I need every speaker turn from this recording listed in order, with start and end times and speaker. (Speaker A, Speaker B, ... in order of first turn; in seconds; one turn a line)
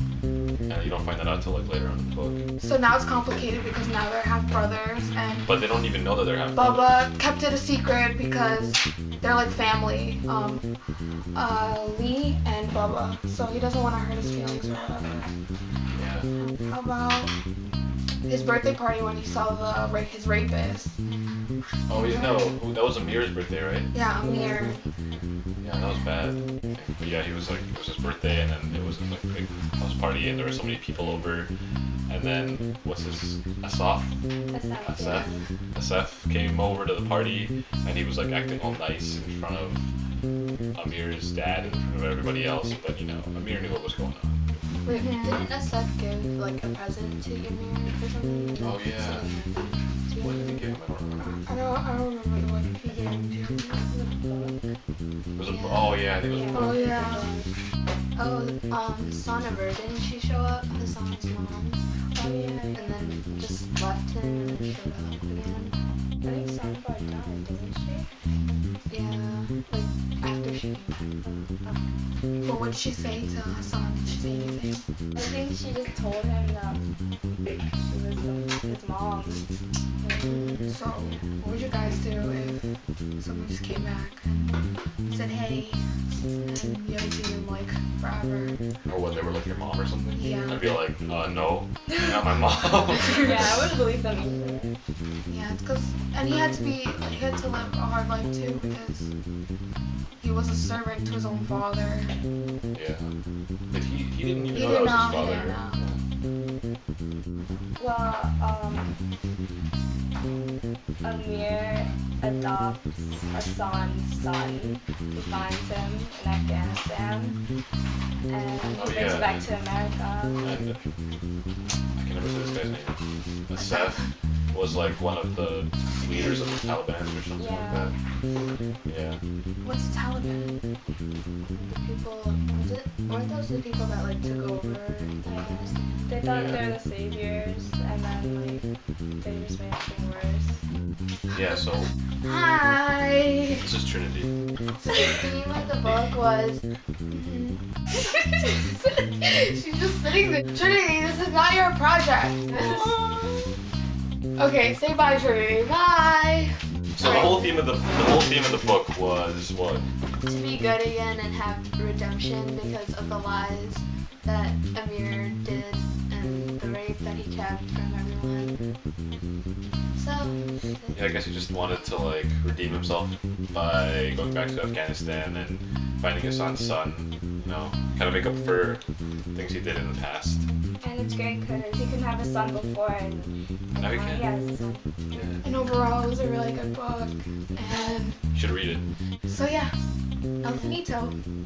Speaker A: 0.7-2.4
Speaker B: 2.6-5.6
Speaker A: 5.5-7.0
Speaker B: 6.5-10.6
Speaker B: 11.3-15.3
Speaker A: 15.9-16.3
Speaker B: 16.4-17.3
Speaker B: 18.2-20.9
Speaker A: 21.9-23.9
Speaker B: 21.9-22.4
Speaker B: 23.9-24.8
Speaker C: 24.2-24.8
Speaker A: 25.6-31.5
Speaker A: 32.1-34.1
Speaker C: 34.5-35.4
Speaker A: 34.8-39.9
Speaker A: 40.7-44.4
Speaker B: 44.9-45.5
Speaker D: 44.9-50.6
Speaker A: 48.6-49.3
Speaker A: 50.2-51.4
Speaker B: 51.2-53.8
Speaker C: 52.9-54.6
Speaker A: 55.4-57.2
Speaker C: 56.2-57.5
Speaker B: 56.5-57.3
Speaker D: 58.1-61.8
Speaker C: 62.1-62.9
Speaker D: 62.7-65.7
Speaker C: 66.2-68.1
Speaker D: 68.9-71.8
Speaker B: 72.4-74.8
Speaker C: 75.1-76.8
Speaker C: 77.4-79.5
Speaker C: 80.0-80.3
Speaker D: 80.2-80.6
Speaker B: 80.6-82.6
Speaker B: 83.2-84.5
Speaker B: 85.1-88.6
Speaker A: 88.9-93.7
Speaker B: 90.1-90.7
Speaker C: 93.1-94.7
Speaker B: 95.2-99.1
Speaker B: 100.2-102.1
Speaker A: 102.7-103.1
Speaker A: 103.7-106.0
Speaker B: 104.5-105.8
Speaker C: 107.8-109.0
Speaker C: 111.0-117.4
Speaker C: 118.3-120.5
Speaker A: 118.8-119.5
Speaker A: 120.4-120.8
Speaker A: 122.0-124.0
Speaker B: 123.6-124.0
Speaker A: 124.5-127.9
Speaker C: 127.3-127.9
Speaker A: 128.8-129.2
Speaker B: 129.6-130.6
Speaker D: 131.5-136.0
Speaker C: 135.2-138.7
Speaker A: 136.3-136.6
Speaker C: 139.2-140.5
Speaker A: 141.3-141.9
Speaker B: 142.2-143.7
Speaker A: 143.6-144.3
Speaker B: 144.8-145.2
Speaker D: 144.9-146.6
Speaker B: 147.1-147.6
Speaker B: 148.8-152.6
Speaker B: 154.4-157.2
Speaker A: 156.9-159.8
Speaker D: 160.2-168.5
Speaker D: 169.9-171.1
Speaker A: 170.9-178.8
Speaker A: 179.3-180.4
Speaker C: 180.8-185.5
Speaker A: 183.7-184.3
Speaker A: 185.1-185.4
Speaker B: 185.4-188.2
Speaker A: 188.3-188.8
Speaker B: 189.2-189.7
Speaker B: 190.4-191.2